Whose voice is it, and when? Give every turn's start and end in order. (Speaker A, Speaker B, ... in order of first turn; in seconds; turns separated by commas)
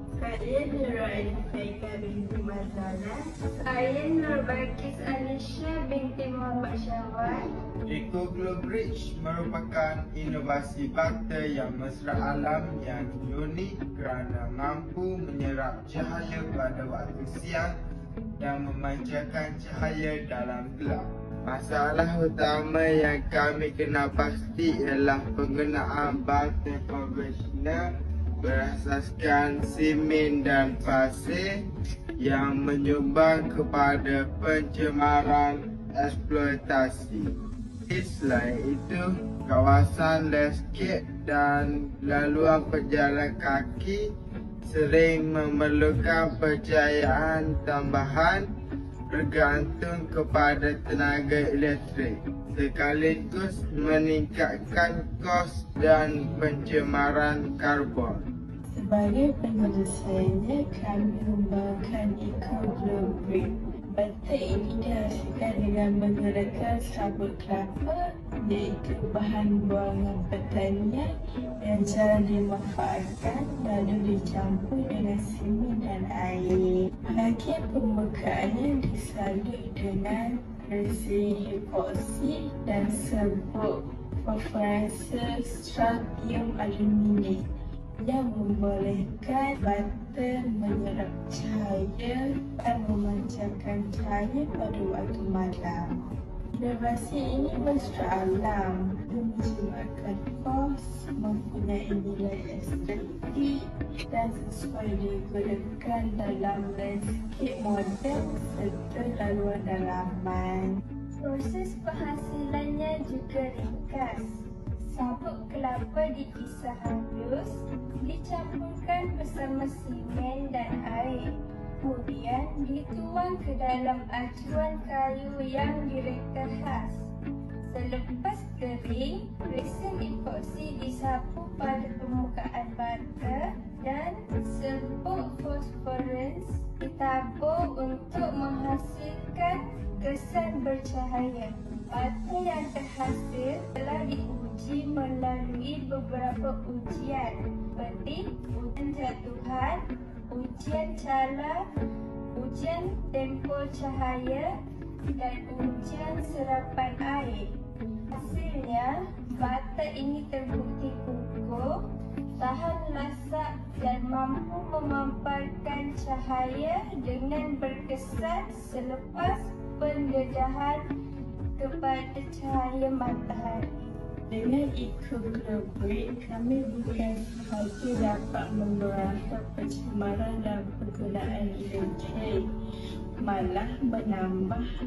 Speaker A: 0.2-3.2, Speaker B: 3.6-7.5, Speaker C: 7.9-17.8, Speaker C: 18.4-27.8, Speaker C: 28.4-31.6, Speaker C: 32.2-37.3, Speaker C: 37.9-44.1, Speaker C: 44.6-48.5, Speaker C: 49.1-58.2, Speaker A: 58.7-87.5, Speaker A: 88.0-110.8, Speaker B: 111.2-114.0, Speaker A: 111.4-114.4, Speaker A: 114.9-117.5, Speaker B: 115.0-117.4, Speaker A: 118.1-119.9, Speaker B: 118.1-127.1, Speaker A: 120.5-120.9, Speaker B: 127.7-151.6, Speaker B: 152.3-154.5, Speaker B: 155.1-157.5, Speaker B: 158.1-161.7, Speaker B: 162.4-170.8, Speaker A: 164.4-166.3, Speaker A: 166.9-170.8, Speaker A: 171.6-173.7, Speaker B: 171.7-172.1, Speaker A: 174.3-182.4, Speaker A: 183.2-184.6